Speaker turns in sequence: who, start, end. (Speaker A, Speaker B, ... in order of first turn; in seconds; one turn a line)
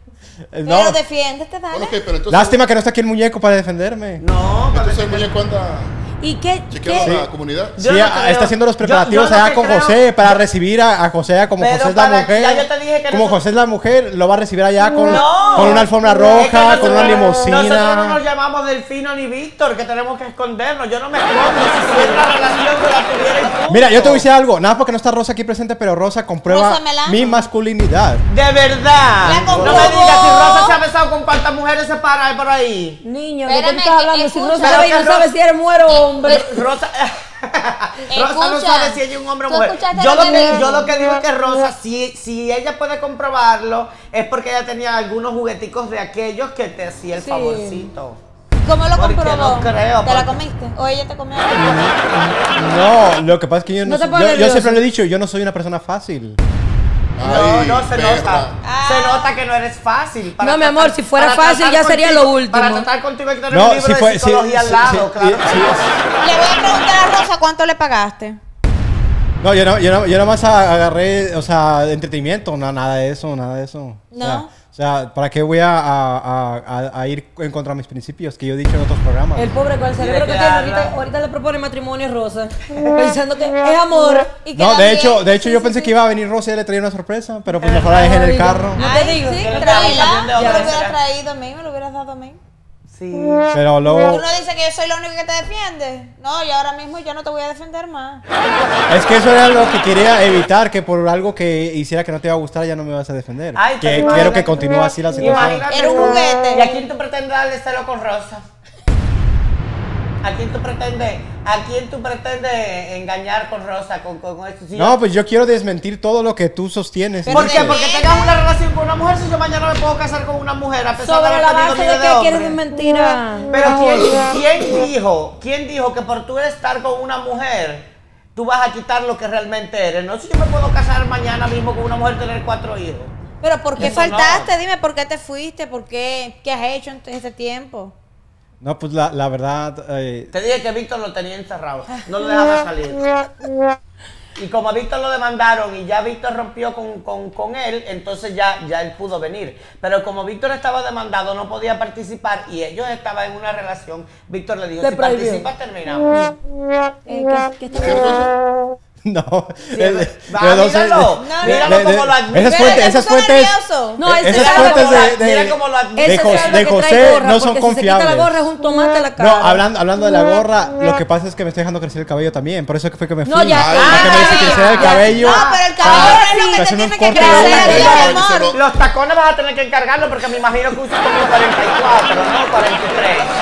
Speaker A: 0.5-1.0
Speaker B: 0.7-2.0
Speaker C: 1.7-2.6
Speaker A: 2.3-4.2
Speaker D: 4.2-5.3
Speaker C: 4.7-6.0
Speaker E: 6.2-7.1
Speaker C: 6.7-7.8
Speaker A: 7.0-18.2
Speaker D: 7.8-10.4
Speaker D: 11.6-13.4
Speaker D: 15.0-24.2
Speaker E: 21.5-22.3
Speaker A: 23.7-28.2
Speaker B: 26.5-27.3
Speaker D: 28.3-33.0
Speaker B: 29.2-30.8
Speaker A: 29.5-30.1
Speaker E: 33.0-36.6
Speaker B: 33.5-35.0
Speaker D: 34.6-35.3
Speaker D: 36.2-48.2
Speaker B: 38.1-40.8
Speaker E: 47.1-47.9
Speaker B: 48.6-51.9
Speaker D: 49.0-50.4
Speaker A: 51.5-56.4
Speaker E: 53.8-54.8
Speaker C: 57.2-58.5
Speaker D: 57.2-65.9
Speaker B: 58.6-59.3
Speaker E: 60.4-62.9
Speaker A: 63.5-66.0
Speaker B: 66.2-68.4
Speaker A: 69.4-79.5
Speaker B: 74.1-74.5
Speaker E: 79.4-84.3
Speaker D: 80.0-80.9
Speaker B: 84.4-86.0
Speaker A: 84.5-88.8
Speaker D: 87.6-88.0
Speaker E: 87.9-90.7
Speaker B: 88.8-92.4
Speaker D: 89.4-91.0
Speaker D: 92.9-93.5
Speaker A: 93.5-94.2
Speaker B: 94.0-98.2
Speaker A: 98.9-105.7
Speaker D: 103.6-108.5
Speaker B: 105.7-106.8
Speaker D: 110.2-115.0
Speaker A: 114.8-117.8
Speaker D: 117.3-122.6
Speaker B: 117.4-118.4
Speaker E: 121.0-124.3
Speaker D: 123.5-133.1
Speaker B: 133.4-137.9
Speaker D: 133.8-134.5
Speaker A: 138.6-140.3
Speaker D: 140.3-143.1
Speaker D: 144.4-156.2
Speaker E: 154.8-155.5
Speaker E: 156.1-156.4
Speaker E: 157.1-158.3
Speaker C: 157.7-158.3
Speaker A: 159.0-168.4
Speaker D: 159.7-162.9
Speaker B: 161.2-161.8
Speaker B: 162.5-165.0
Speaker E: 164.0-165.1
Speaker D: 164.2-166.7
Speaker E: 165.9-169.6
Speaker A: 169.2-178.2
Speaker E: 173.2-175.1
Speaker C: 173.5-174.4
Speaker D: 173.8-176.2
Speaker B: 173.9-178.5
Speaker E: 175.8-178.0
Speaker C: 177.2-178.7
Speaker D: 178.0-183.3